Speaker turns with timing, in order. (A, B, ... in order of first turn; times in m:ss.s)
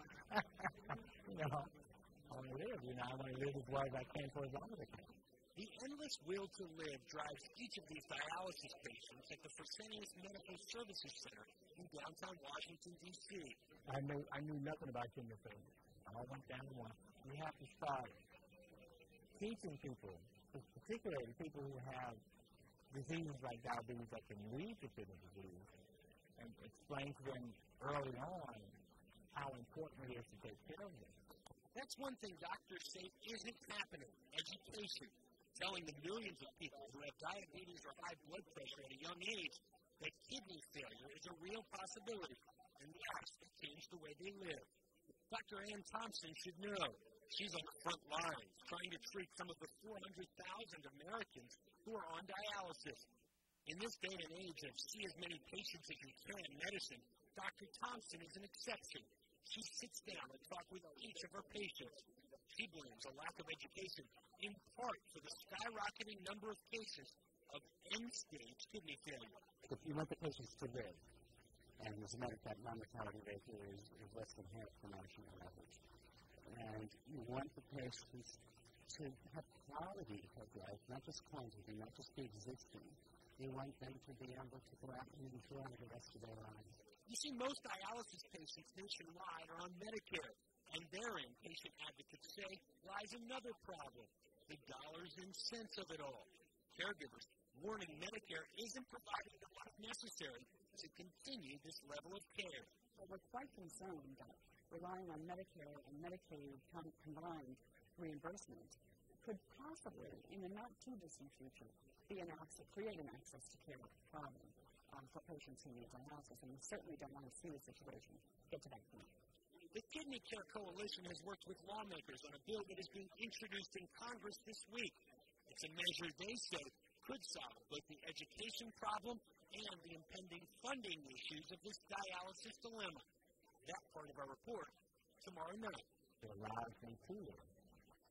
0:00.3-0:01.7 A
0:02.3-0:05.1 A
0:05.6-0:13.6 B
0:13.9-0:18.2 A
0:19.4-0:22.2 A
0:22.9-0:25.7 A
0:26.4-0:28.8 A
0:29.3-0:31.2 A
0:31.7-0:44.7 B
0:45.3-0:53.1 B
0:53.7-1:09.4 B
1:09.6-1:11.1 C
1:11.8-1:15.8 C
1:16.4-1:26.8 C
1:27.0-1:42.7 B
1:43.0-1:59.1 D
1:59.7-2:13.0 B
2:13.6-2:15.9 B
2:16.2-2:17.5 A